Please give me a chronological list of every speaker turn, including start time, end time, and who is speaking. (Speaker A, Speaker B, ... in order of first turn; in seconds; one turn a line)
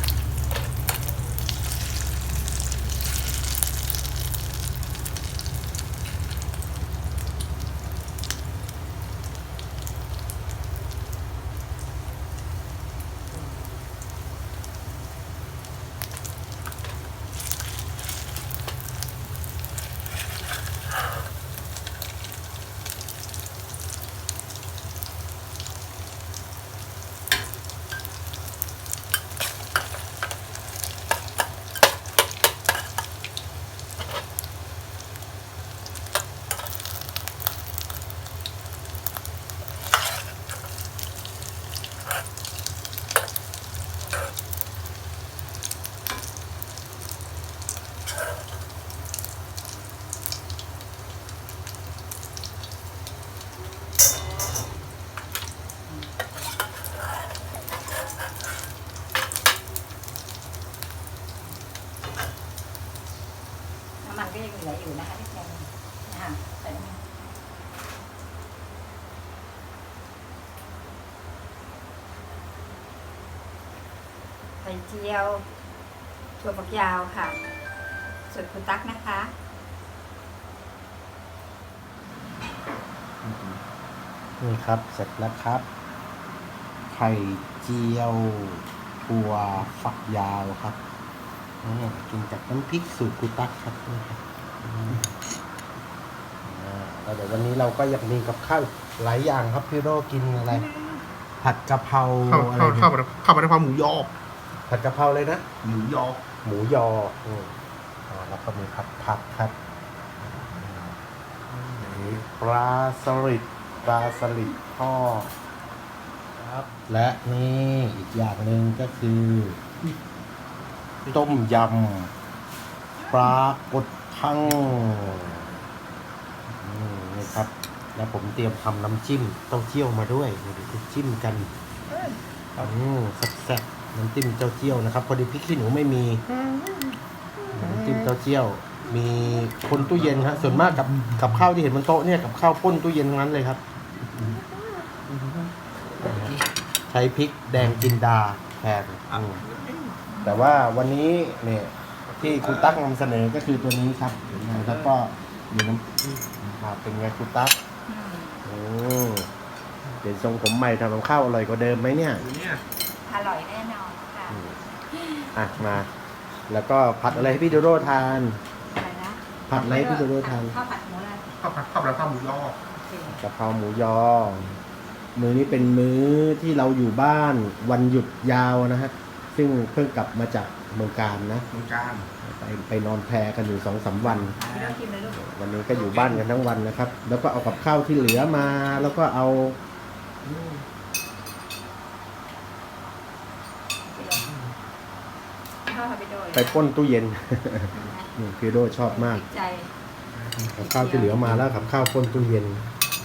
Speaker A: 64.0-67.0
Speaker A: 74.6-75.5
Speaker A: 76.4-77.4
Speaker A: 78.3-79.3
Speaker B: 83.2-83.6
Speaker C: 84.4-85.7
Speaker C: 86.9-90.8
Speaker C: 91.6-95.1
Speaker C: 96.4-100.7
Speaker C: 101.4-102.9
Speaker B: 102.2-104.1
Speaker C: 104.7-105.4
Speaker B: 105.6-106.3
Speaker C: 106.4-107.5
Speaker C: 108.1-109.6
Speaker C: 110.2-110.9
Speaker B: 110.5-110.9
Speaker B: 111.5-112.2
Speaker C: 111.8-115.3
Speaker C: 116.4-119.6
Speaker C: 121.1-122.1
Speaker C: 123.1-125.5
Speaker B: 124.4-125.0
Speaker C: 126.5-131.5
Speaker B: 131.9-132.7
Speaker C: 132.6-136.2
Speaker B: 136.3-138.1
Speaker C: 137.6-143.6
Speaker B: 139.7-141.4
Speaker B: 144.1-145.5
Speaker C: 146.0-146.3
Speaker C: 146.9-149.4
Speaker B: 147.6-147.9
Speaker B: 149.1-150.0
Speaker A: 150.1-150.4
Speaker C: 150.2-156.0
Speaker B: 154.3-154.9
Speaker B: 156.1-156.6
Speaker C: 156.6-157.6
Speaker A: 157.9-158.4
Speaker C: 158.4-159.3
Speaker C: 160.0-162.2
Speaker B: 162.2-162.6
Speaker A: 163.0-165.3
Speaker C: 164.3-164.5
Speaker C: 165.3-165.9
Speaker C: 166.5-168.4
Speaker A: 168.7-171.3
Speaker C: 169.5-170.6
Speaker B: 171.3-172.6
Speaker A: 172.7-173.2
Speaker C: 173.1-174.6
Speaker C: 175.1-181.4
Speaker B: 181.5-182.1
Speaker C: 182.2-184.3
Speaker B: 184.0-184.8
Speaker A: 184.1-185.2
Speaker C: 185.1-189.6
Speaker B: 185.7-186.2
Speaker A: 187.9-188.9
Speaker B: 190.2-190.7
Speaker A: 193.8-194.3
Speaker B: 194.2-194.5
Speaker A: 195.7-196.7
Speaker C: 196.3-199.2
Speaker A: 197.7-199.7
Speaker B: 200.1-201.8
Speaker C: 200.5-202.6
Speaker A: 200.6-201.3